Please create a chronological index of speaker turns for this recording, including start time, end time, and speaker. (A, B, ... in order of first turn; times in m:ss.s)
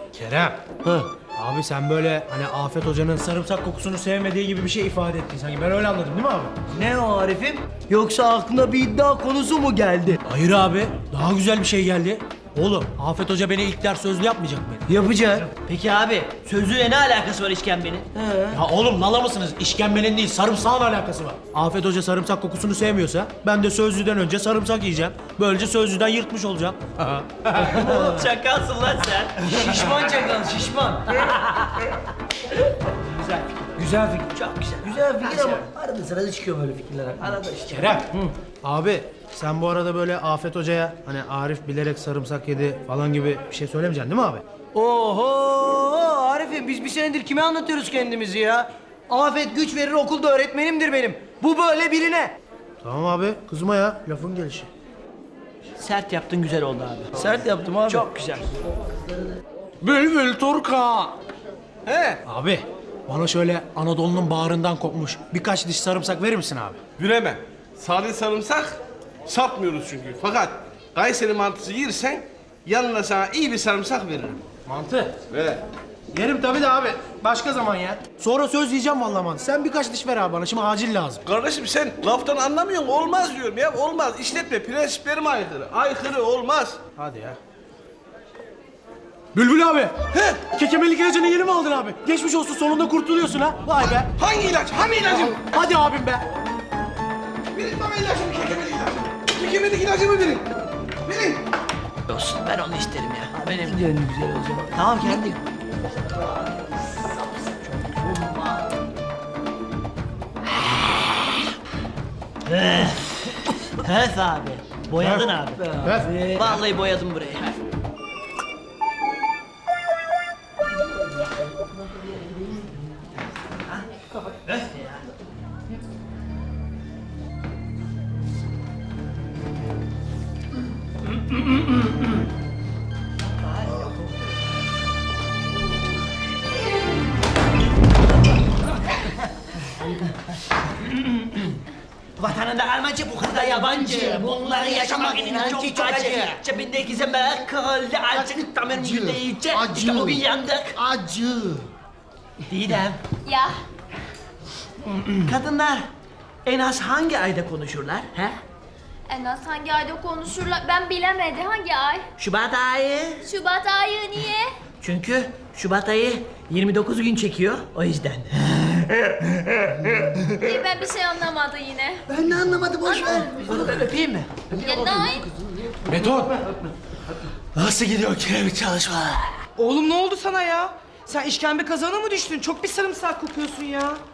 0:00.1-0:00.6 A
0:01.4-0:06.5 A
0:06.7-0:10.2 B
0:10.2-0:14.8 A
0:14.9-0:15.5 B
0:15.4-0:18.1 C
0:18.2-0:18.6 B
0:18.5-0:27.9 A
0:27.6-0:29.9 C
0:29.4-0:31.1 B
0:33.1-0:35.7 C
0:33.8-0:34.3 B
0:34.8-0:37.4 B
0:37.2-0:38.0 C
0:37.7-0:44.4 A
0:44.7-0:52.4 B
0:52.8-0:54.7 A
0:55.8-0:57.2 C
0:57.2-0:58.1 B
0:57.9-0:58.5 C
0:59.8-1:01.2 A
1:01.9-1:02.2 D
1:02.2-1:06.8 A
1:07.0-1:14.5 D
1:14.6-1:15.2 A
1:15.3-1:15.6 D
1:16.1-1:21.2 A
1:21.3-1:26.8 D
1:26.9-1:27.4 A
1:29.3-1:34.1 A
1:30.1-1:30.4 D
1:34.2-1:35.4 D
1:35.4-1:36.3 A
1:37.5-1:40.4 D
1:41.0-1:41.4 D
1:42.1-1:43.8 C
1:43.4-1:45.4 B
1:44.7-1:45.4 C
1:47.8-1:48.6 B
1:52.5-1:53.3 C
1:53.8-1:55.6 C
1:55.0-1:55.3 A
1:55.6-1:56.6 B
1:55.8-1:56.1 A
1:56.4-1:57.6 C
2:04.4-2:05.1 C
2:13.4-2:13.9 C
2:20.8-2:21.5 C
2:22.2-2:30.8 C
2:23.7-2:25.9 E
2:25.6-2:26.0 B
2:28.1-2:31.7 E
2:32.5-2:33.0 C
2:33.2-2:33.6 F
2:35.2-2:35.9 C
2:36.4-2:38.4 C
2:39.1-2:42.1 F
2:42.2-2:43.2 C
2:43.3-2:44.5 F
2:44.8-2:49.5 C
2:50.4-2:52.0 F
2:52.1-2:53.9 E
2:52.9-2:53.2 F
2:53.1-2:54.3 C
2:54.5-2:55.9 E
2:54.5-2:55.3 F
2:55.9-2:56.3 A
2:57.6-2:59.2 B
2:57.8-2:58.3 A
2:59.6-3:04.0 G